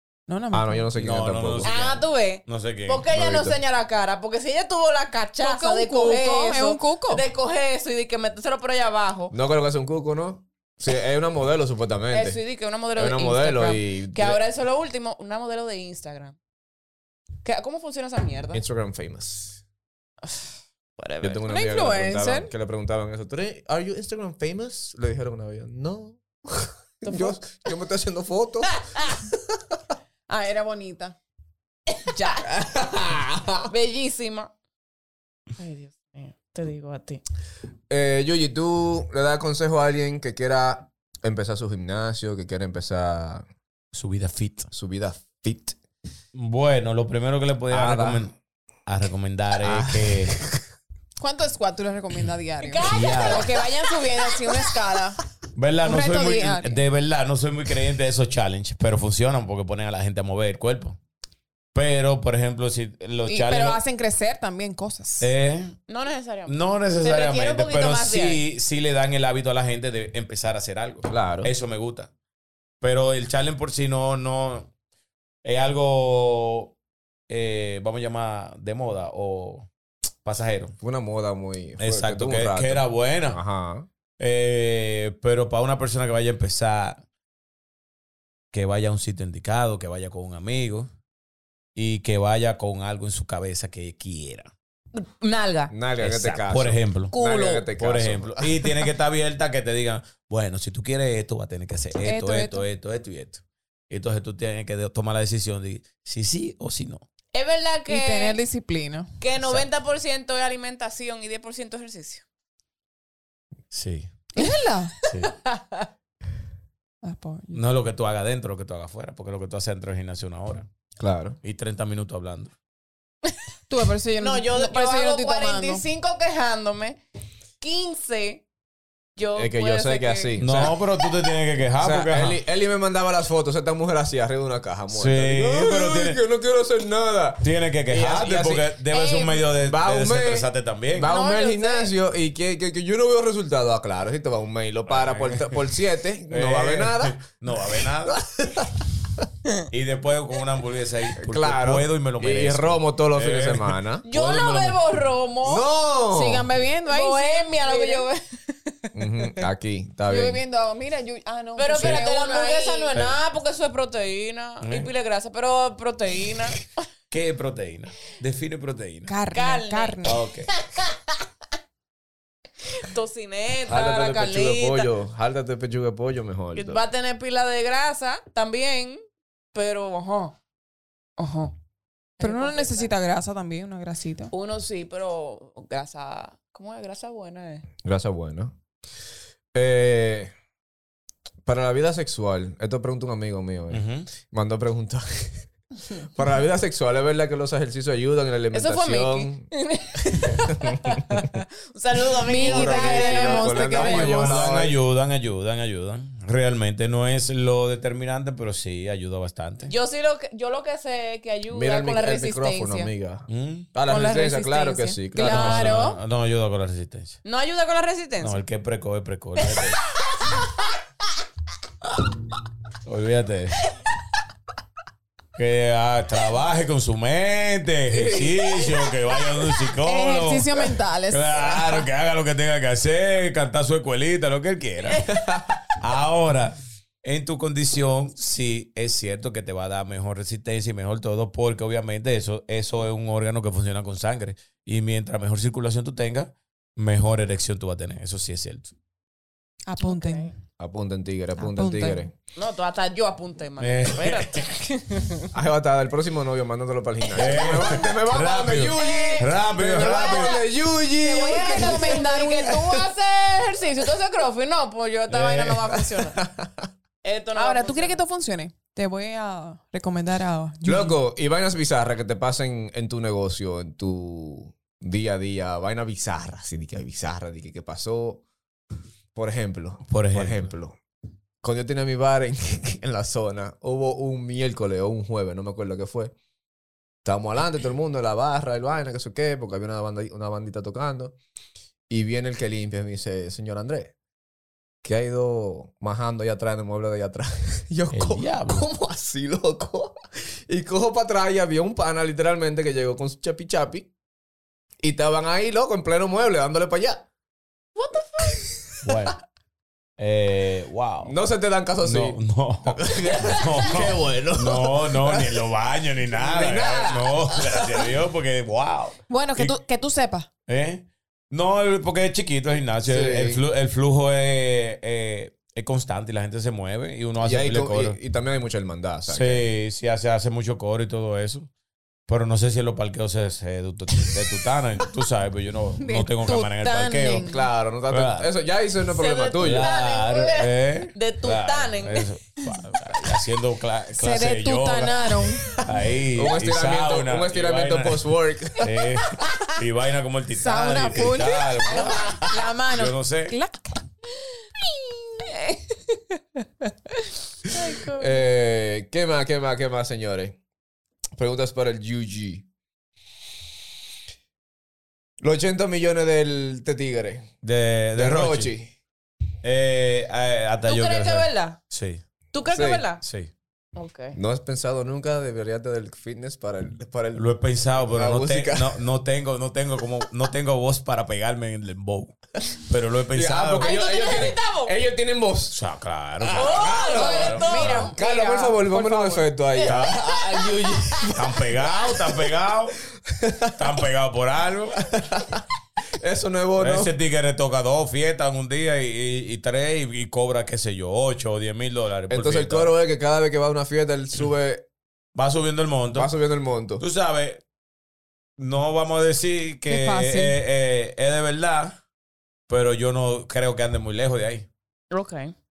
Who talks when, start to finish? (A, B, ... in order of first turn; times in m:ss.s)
0:00.3-0:00.9 A
0:00.5-0:01.7 B
0:01.0-0:03.0 C
0:01.6-0:09.3 D
0:03.1-0:03.6 B
0:05.4-0:07.2 A
0:09.3-0:12.4 B
0:12.1-0:16.4 D
0:13.0-0:14.4 B
0:17.4-0:18.6 D
0:18.5-0:19.6 B
0:20.2-0:21.4 D
0:21.2-0:28.8 B
0:21.5-0:22.5 A
0:27.0-0:27.4 D
0:30.3-0:31.2 A
0:31.9-0:32.4 D
0:32.4-0:33.7 B
0:33.7-0:34.5 D
0:35.6-0:37.2 D
0:37.9-0:43.4 B
0:43.9-0:44.7 C
0:44.7-0:45.8 B
0:46.3-0:48.4 C
0:47.7-0:48.3 B
0:48.9-0:50.4 C
0:49.6-0:50.6 B
0:51.2-0:55.2 A
0:52.6-0:54.0 D
0:52.8-0:53.5 C
0:55.6-1:01.0 C
0:55.8-0:56.8 A
1:01.7-1:03.8 C
1:03.3-1:05.3 A
1:05.2-1:05.8 C
1:05.9-1:08.4 D
1:06.5-1:12.1 C
1:11.1-1:11.5 B
1:12.8-1:14.7 C
1:15.4-1:16.7 C
1:17.3-1:19.7 C
1:20.2-1:20.8 C
1:20.8-1:23.9 B
1:21.8-1:23.4 C
1:24.2-1:27.0 C
1:28.5-1:30.9 C
1:31.8-1:34.5 C
1:34.9-1:35.7 D
1:35.7-1:38.6 B
1:36.0-1:37.1 C
1:37.1-1:37.6 D
1:37.8-1:47.0 C
1:42.0-1:42.6 A
1:47.3-1:48.4 D
1:47.9-1:49.1 A
1:49.2-1:52.2 D
1:53.7-1:54.1 C
1:54.3-1:54.9 A
1:55.0-1:55.9 D
1:55.1-1:55.3 C
1:57.0-1:57.6 A
1:57.5-2:00.6 C
2:01.0-2:01.4 B
2:01.4-2:02.5 C
2:03.7-2:05.8 A
2:04.2-2:07.0 D
2:07.6-2:08.4 D
2:09.2-2:10.6 D
2:09.4-2:10.8 B
2:10.4-2:12.4 C
2:11.8-2:18.7 B
2:14.9-2:16.2 C
2:17.4-2:21.1 C
2:18.9-2:19.4 D
2:19.6-2:27.2 B
2:21.0-2:21.9 D
2:24.9-2:25.7 C
2:26.3-2:28.2 C
2:28.0-2:28.9 B
2:29.7-2:34.8 C
2:31.2-2:34.1 B
2:34.0-2:35.6 D
2:35.4-2:36.5 B
2:36.1-2:38.1 A
2:36.9-2:38.9 D
2:38.9-2:40.4 B
2:40.1-2:42.9 A
2:41.6-2:46.6 D
2:41.7-2:42.0 C
2:42.9-2:43.2 C
2:44.6-2:44.9 C
2:47.1-2:49.1 C
2:49.1-2:50.2 A
2:49.3-2:50.1 D
2:50.0-2:50.5 C
2:50.6-2:51.1 D
2:52.7-2:54.9 D
2:53.7-2:56.8 B
2:56.6-2:59.0 D
2:59.5-3:00.4 D
3:01.2-3:01.5 D
3:02.2-3:02.9 D
3:02.2-3:04.3 A
3:04.3-3:07.6 D
3:07.8-3:08.6 B
3:09.5-3:10.3 B
3:11.4-3:15.4 B
3:13.7-3:14.1 C
3:16.0-3:19.5 B
3:18.5-3:24.2 D
3:20.3-3:21.3 B
3:22.3-3:24.4 A
3:22.4-3:24.8 B
3:23.8-3:29.7 C
3:29.6-3:32.9 D
3:31.5-3:35.8 B
3:33.3-3:33.7 C
3:33.9-3:35.0 D
3:35.1-3:36.0 A
3:35.3-3:37.2 C
3:37.2-3:38.4 D
3:38.2-3:39.8 C
3:39.4-3:40.5 D
3:42.9-3:43.7 C
3:45.4-3:55.1 C
3:47.9-3:48.9 B
3:49.8-3:51.5 A
3:55.1-3:55.6 B
3:55.7-4:08.7 C
4:09.6-4:10.3 A
4:09.8-4:10.3 D
4:10.6-4:12.1 B
4:11.4-4:12.0 A
4:12.4-4:15.3 D
4:13.6-4:14.4 C
4:15.3-4:22.6 B
4:17.1-4:20.4 C
4:18.6-4:20.5 D
4:21.0-4:22.8 A
4:21.0-4:26.2 D
4:25.1-4:25.8 C
4:26.1-4:26.7 B
4:27.0-4:28.0 D
4:27.4-4:30.9 A
4:30.6-4:38.2 B
4:39.1-4:40.8 B
4:39.9-4:40.5 C
4:41.4-4:46.1 B
4:47.0-4:51.2 B
4:51.9-4:53.9 B
4:54.8-5:03.9 B
4:57.9-4:58.7 C
5:04.8-5:07.1 B
5:07.8-5:08.4 D
5:08.2-5:09.1 B
5:08.8-5:09.2 C
5:10.0-5:11.1 C
5:11.0-5:15.4 B
5:11.8-5:19.6 C
5:13.1-5:13.6 D
5:16.1-5:17.9 B
5:19.1-5:20.3 A
5:20.5-5:28.0 C
5:22.9-5:23.4 B
5:27.2-5:29.4 B
5:29.1-5:31.5 C
5:32.1-5:37.3 C
5:35.8-5:37.4 A
5:37.0-5:39.7 B
5:37.9-5:38.3 C
5:38.9-5:42.1 D
5:39.4-5:53.4 C
5:43.9-5:45.6 A
5:45.5-5:48.7 B
5:50.4-5:53.8 A
5:51.6-5:52.2 D
5:54.9-5:56.2 D
5:57.5-5:58.2 D
5:57.9-6:00.4 B
6:01.1-6:02.4 B
6:05.2-6:07.4 B
6:07.4-6:08.5 C
6:08.0-6:08.7 B
6:09.4-6:12.0 C
6:10.6-6:11.6 D
6:12.3-6:13.0 D
6:12.5-6:12.8 B
6:13.0-6:13.3 C
6:13.8-6:14.2 D
6:14.1-6:17.3 B
6:17.1-6:24.3 C
6:17.9-6:18.8 B
6:23.1-6:25.6 B
6:23.6-6:24.7 D
6:25.5-6:27.9 C
6:26.2-6:31.5 B
6:26.3-6:28.6 D
6:26.8-6:29.3 A
6:29.5-6:31.1 D
6:29.6-6:29.9 C
6:31.1-6:32.8 C
6:33.1-6:33.6 B
6:33.6-6:35.0 C
6:34.9-6:36.9 B
6:36.6-6:42.7 C
6:42.1-6:44.6 B
6:45.1-6:46.1 C
6:45.9-6:46.8 B
6:46.8-6:47.4 C
6:48.4-6:51.8 C
6:49.7-6:50.4 A
6:52.5-6:54.5 C
6:54.9-6:55.3 D